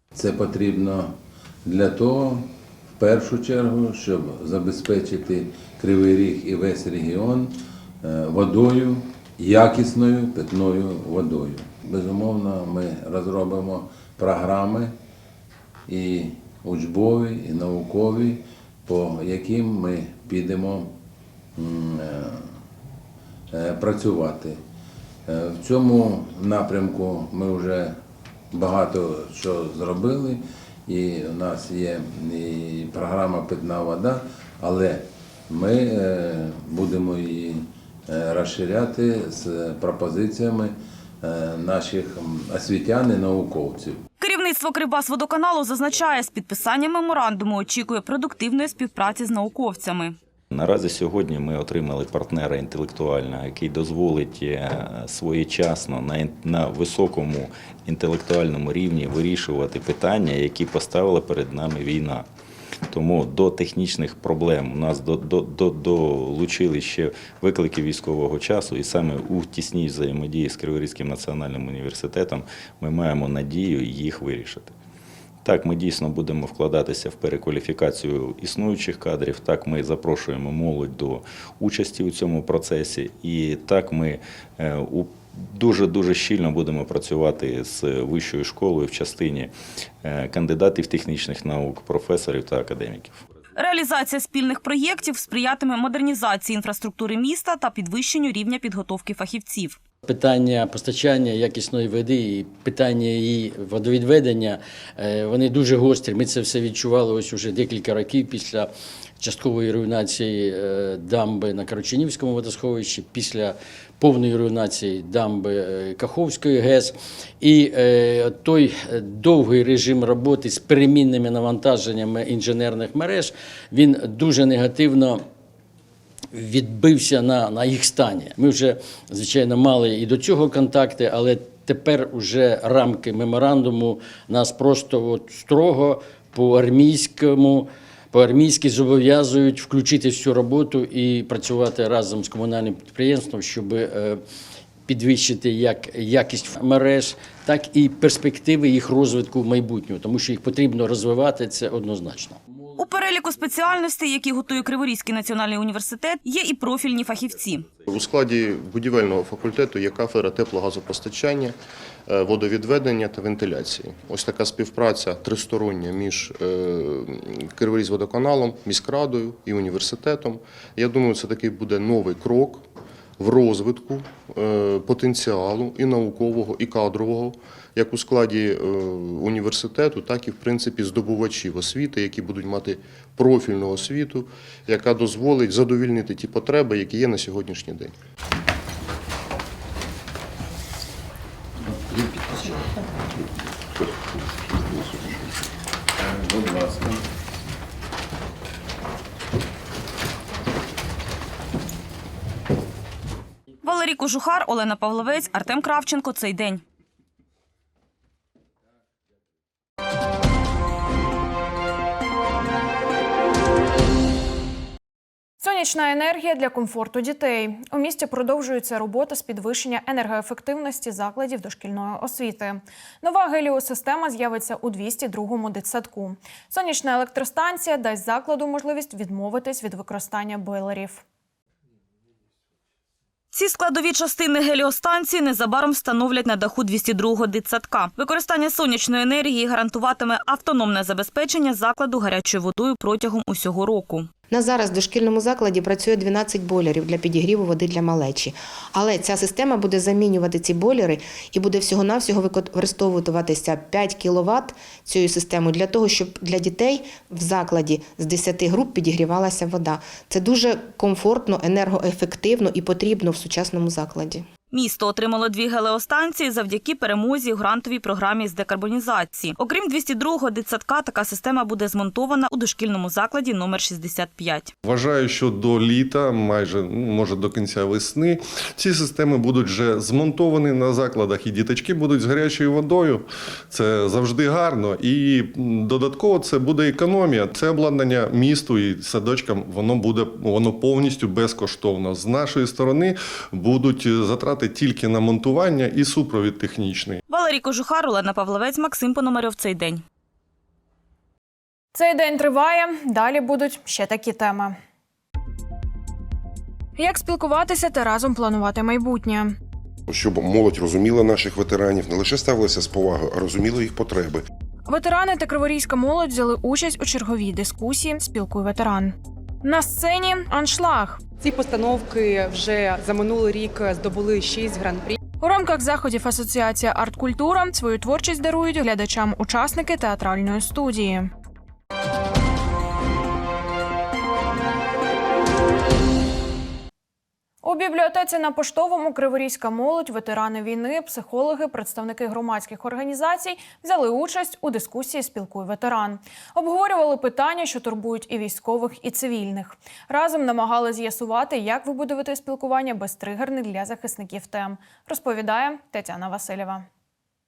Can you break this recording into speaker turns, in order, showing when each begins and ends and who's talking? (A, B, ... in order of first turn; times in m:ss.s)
0:00.1-0:01.1 A
0:01.6-0:02.5 A
0:03.0-0:14.9 A
0:15.9-0:20.9 A
0:21.6-0:22.5 A
0:23.5-0:24.6 A
0:25.3-0:28.0 A
0:28.5-0:44.0 A
0:44.2-0:50.2 B
0:50.5-1:02.3 C
1:02.9-1:14.7 C
1:15.4-1:29.5 C
1:30.0-1:33.2 C
1:33.6-1:39.8 B
1:40.1-2:05.2 D
2:06.3-2:24.2 D
2:24.9-2:32.4 D
2:32.8-2:37.7 B
2:37.9-2:41.6 E
2:42.1-2:52.6 E
2:53.2-3:07.9 E
3:11.9-3:12.6 A
3:16.0-3:17.0 A
3:23.6-3:26.6 B
3:35.4-3:51.0 F
3:53.3-4:04.1 B
4:04.3-4:24.3 G
4:24.5-4:34.5 B
4:34.6-4:57.0 H
4:57.1-4:59.8 B
5:01.7-5:04.6 F
5:06.8-5:09.4 F
5:09.9-5:14.3 I
5:14.7-5:21.0 F
5:21.2-5:25.0 J
5:25.2-5:31.1 F
5:37.4-5:56.7 F